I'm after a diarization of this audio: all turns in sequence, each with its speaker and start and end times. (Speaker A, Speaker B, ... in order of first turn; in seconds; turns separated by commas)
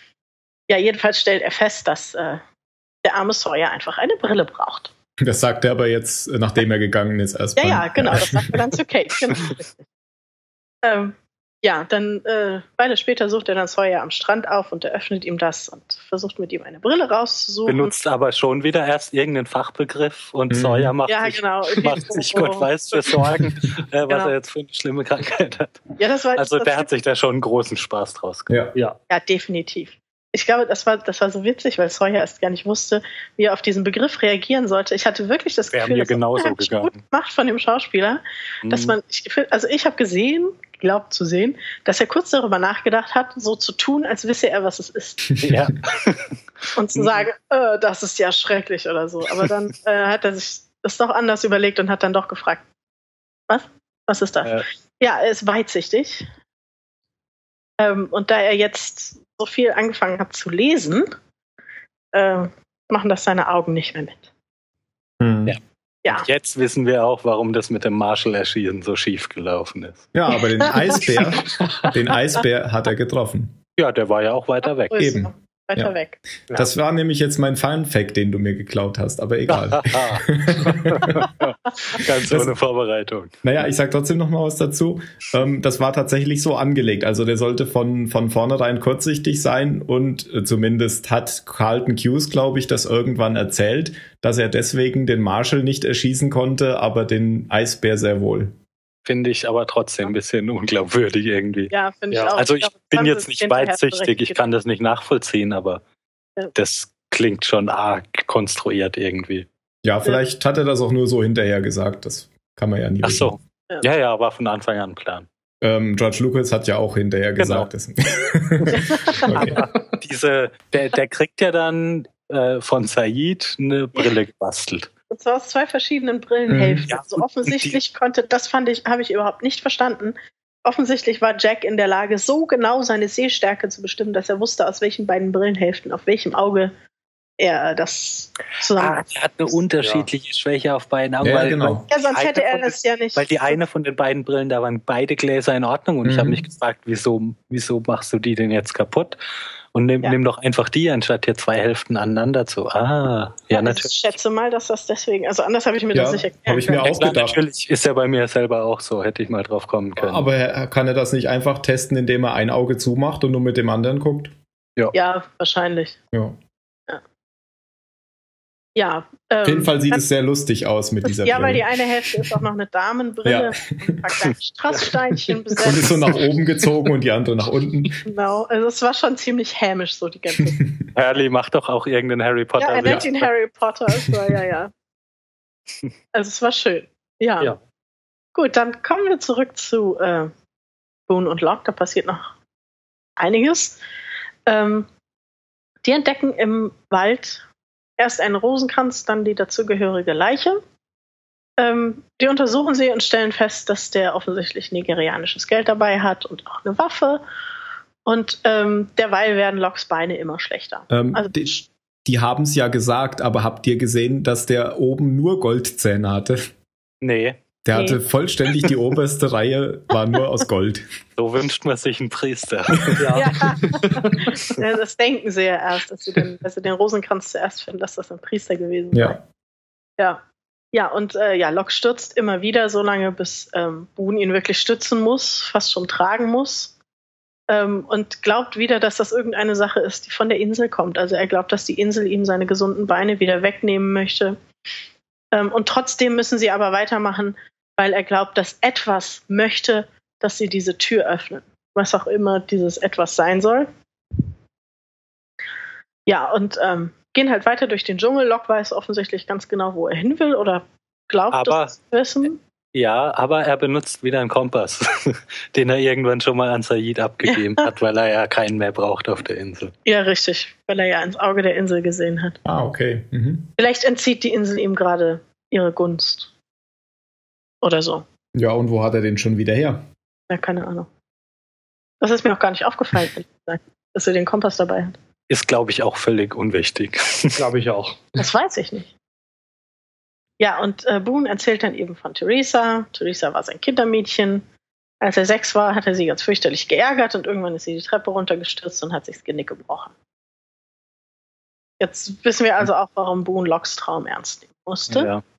Speaker A: 0.7-2.4, Speaker A: 3.0-4.9, Speaker B: 5.2-8.6, Speaker A: 7.6-9.8, Speaker A: 10.8-17.9, Speaker C: 17.7-28.5, Speaker B: 20.5-20.9, Speaker A: 21.1-23.2, Speaker A: 24.1-24.3, Speaker A: 26.0-26.9, Speaker B: 28.5-28.7, Speaker A: 29.1-45.4, Speaker C: 35.7-37.0, Speaker C: 38.6-39.0, Speaker C: 45.4-46.3, Speaker A: 46.7-52.6, Speaker C: 46.9-47.2, Speaker A: 53.5-56.3, Speaker A: 57.8-61.1, Speaker A: 62.1-64.3, Speaker B: 65.2-65.6, Speaker C: 65.5-70.1, Speaker B: 70.1-73.6, Speaker A: 70.6-71.8, Speaker C: 73.8-75.0, Speaker A: 74.9-76.2, Speaker B: 75.0-75.9, Speaker B: 76.5-81.3, Speaker C: 79.5-83.3, Speaker B: 82.2-82.5, Speaker B: 83.4-98.5, Speaker C: 99.0-101.7, Speaker A: 101.7-104.5, Speaker D: 102.1-102.4, Speaker C: 102.4-105.8, Speaker C: 106.5-109.5, Speaker B: 109.8-113.3, Speaker C: 113.0-115.2, Speaker B: 115.6-119.6, Speaker C: 117.4-117.7, Speaker A: 118.7-119.3, Speaker C: 119.3-124.9, Speaker A: 125.1-136.7, Speaker B: 126.5-126.8, Speaker C: 126.9-127.8, Speaker A: 137.4-139.5, Speaker C: 138.8-149.2, Speaker D: 139.8-140.1, Speaker B: 141.2-141.8, Speaker A: 141.9-143.6, Speaker B: 146.0-146.4, Speaker C: 149.7-154.1, Speaker A: 153.5-157.0, Speaker B: 155.9-157.4, Speaker C: 156.8-160.2, Speaker B: 160.0-164.3, Speaker A: 164.9-166.0, Speaker A: 168.7-170.0, Speaker B: 169.4-171.7, Speaker A: 171.0-176.1, Speaker B: 173.2-174.0, Speaker B: 175.6-178.0, Speaker A: 178.0-180.6, Speaker C: 180.9-183.3, Speaker A: 182.6-184.7, Speaker A: 186.1-187.5, Speaker A: 188.3-190.3, Speaker A: 191.1-192.3, Speaker A: 193.2-193.8, Speaker A: 194.5-194.9, Speaker A: 195.8-197.4, Speaker A: 198.0-200.6, Speaker A: 201.6-207.2, Speaker A: 208.0-211.6, Speaker B: 210.9-216.5, Speaker C: 217.0-217.4, Speaker B: 217.6-220.8, Speaker A: 217.7-218.0, Speaker C: 221.2-223.2, Speaker D: 223.0-224.3, Speaker A: 223.1-229.2, Speaker B: 228.9-229.2, Speaker A: 230.7-236.8, Speaker A: 237.5-244.4, Speaker A: 245.3-253.7, Speaker A: 256.1-262.4, Speaker C: 261.3-261.7, Speaker C: 262.7-269.7, Speaker A: 267.3-267.6, Speaker A: 269.8-272.4, Speaker B: 272.4-273.5, Speaker A: 273.6-276.3, Speaker A: 277.6-278.0, Speaker B: 278.3-279.8, Speaker A: 280.3-280.9, Speaker A: 282.0-284.9, Speaker C: 285.3-287.4, Speaker D: 287.4-288.2, Speaker A: 288.2-288.9, Speaker A: 290.4-294.4, Speaker A: 295.0-299.9, Speaker A: 301.8-305.1, Speaker C: 304.9-305.2